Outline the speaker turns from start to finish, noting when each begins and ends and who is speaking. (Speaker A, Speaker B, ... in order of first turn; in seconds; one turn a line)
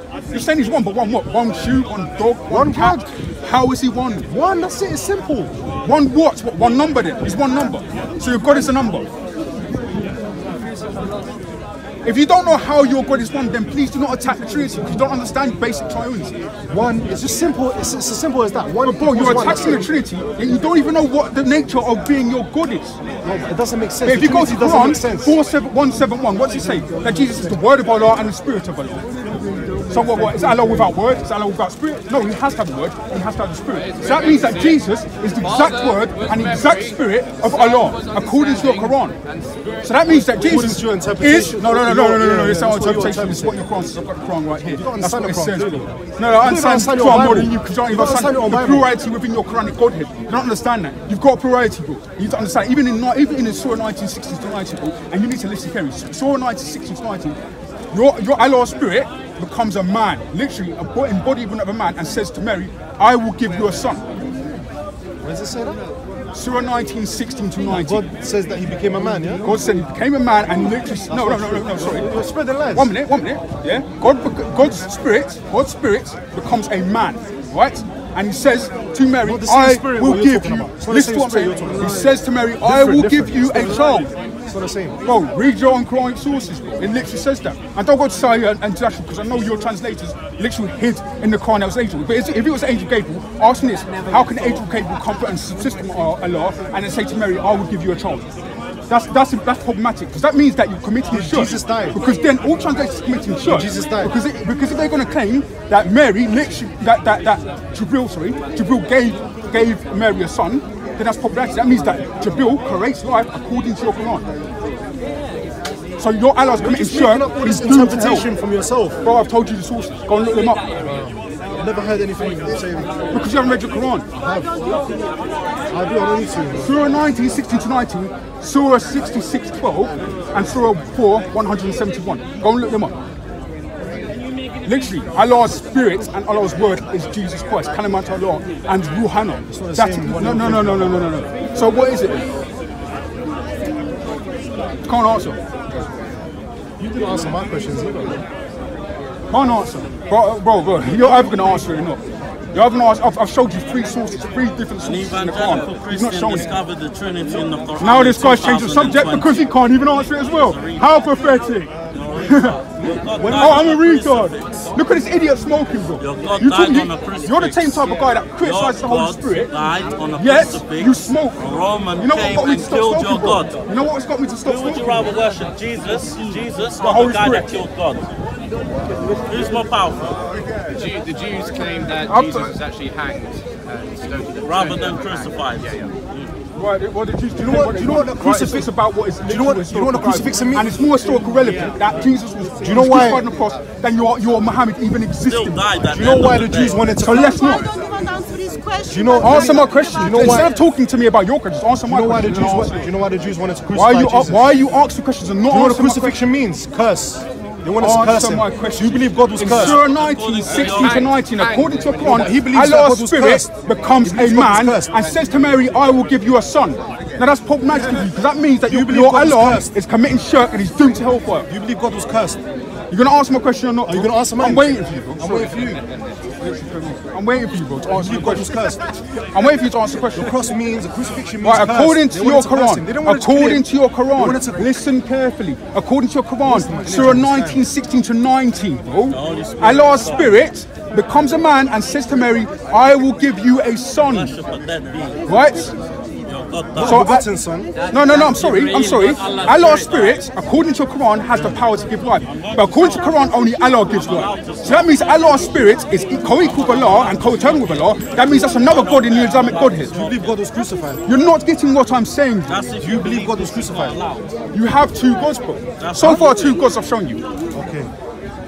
Speaker A: 0.3-4.3
Speaker B: 2.5-3.1
Speaker B: 4.3-5.5
Speaker A: 5.8-9.1
Speaker A: 12.0-16.4
Speaker B: 16.7-19.9
Speaker A: 18.8-23.0
Speaker B: 23.2-25.4
Speaker A: 24.1-29.1
Speaker C: 29.4-30.5
Speaker A: 29.9-39.2
Speaker C: 33.7-40.3
Speaker A: 39.8-57.4
Speaker B: 40.3-43.6
Speaker B: 44.6-48.9
Speaker A: 57.9-64.0
Speaker B: 65.2-65.8
Speaker A: 66.3-68.1
Speaker B: 67.7-69.6
Speaker A: 69.4-72.2
Speaker B: 71.0-73.0
Speaker A: 72.7-84.1
Speaker B: 79.2-85.0
Speaker A: 85.0-98.3
Speaker A: 98.9-114.3
Speaker B: 101.1-102.0
Speaker B: 103.5-104.2
Speaker A: 116.0-118.3
Speaker B: 116.6-119.0
Speaker A: 119.0-120.6
Speaker B: 120.8-123.2
Speaker A: 123.1-124.1
Speaker B: 124.1-124.5
Speaker D: 124.2-125.1
Speaker B: 125.7-126.8
Speaker A: 126.6-133.0
Speaker A: 134.6-142.2
Speaker B: 139.5-141.1
Speaker A: 144.8-145.4
Speaker B: 146.8-148.2
Speaker A: 149.3-152.0
Speaker A: 152.5-156.5
Speaker E: 154.8-159.5
Speaker A: 157.8-162.6
Speaker E: 160.2-161.3
Speaker E: 161.9-164.7
Speaker B: 163.2-163.6
Speaker A: 163.2-169.5
Speaker E: 166.0-173.6
Speaker A: 170.2-171.4
Speaker A: 172.0-175.1
Speaker E: 174.4-178.1
Speaker A: 176.8-177.5
Speaker A: 178.9-179.5
Speaker E: 179.3-180.2
Speaker C: 180.7-185.9
Speaker A: 182.0-182.6
Speaker E: 184.4-186.3
Speaker A: 186.6-195.8
Speaker B: 187.4-188.7
Speaker B: 189.2-190.8
Speaker C: 191.3-191.9
Speaker B: 192.6-193.3
Speaker E: 195.2-197.0
Speaker B: 195.9-197.7
Speaker A: 197.0-197.7
Speaker D: 197.0-200.6
Speaker B: 198.9-200.5
Speaker A: 199.2-202.9
Speaker B: 201.8-204.6
Speaker A: 203.7-206.2
Speaker B: 205.5-209.8
Speaker A: 207.8-221.5
Speaker E: 209.5-211.2
Speaker C: 210.5-212.2
Speaker B: 212.1-215.1
Speaker B: 217.7-218.0
Speaker B: 218.7-219.7
Speaker B: 221.5-222.4
Speaker A: 222.9-225.8
Speaker B: 223.8-225.8
Speaker A: 226.4-228.6
Speaker B: 227.9-228.8
Speaker A: 229.3-230.3
Speaker B: 230.1-234.8
Speaker A: 231.4-244.3
Speaker B: 236.4-237.7
Speaker E: 239.1-240.5
Speaker E: 244.0-245.3
Speaker A: 245.3-245.7
Speaker E: 246.3-247.2
Speaker B: 246.8-247.7
Speaker A: 246.8-247.3
Speaker C: 247.8-250.2
Speaker A: 247.9-260.0
Speaker E: 248.6-250.2
Speaker E: 252.2-255.6
Speaker E: 256.5-260.5
Speaker B: 259.9-261.1
Speaker A: 261.1-262.6
Speaker E: 262.5-264.3
Speaker B: 262.8-264.0
Speaker A: 264.5-267.2
Speaker E: 265.8-266.7
Speaker B: 267.5-267.9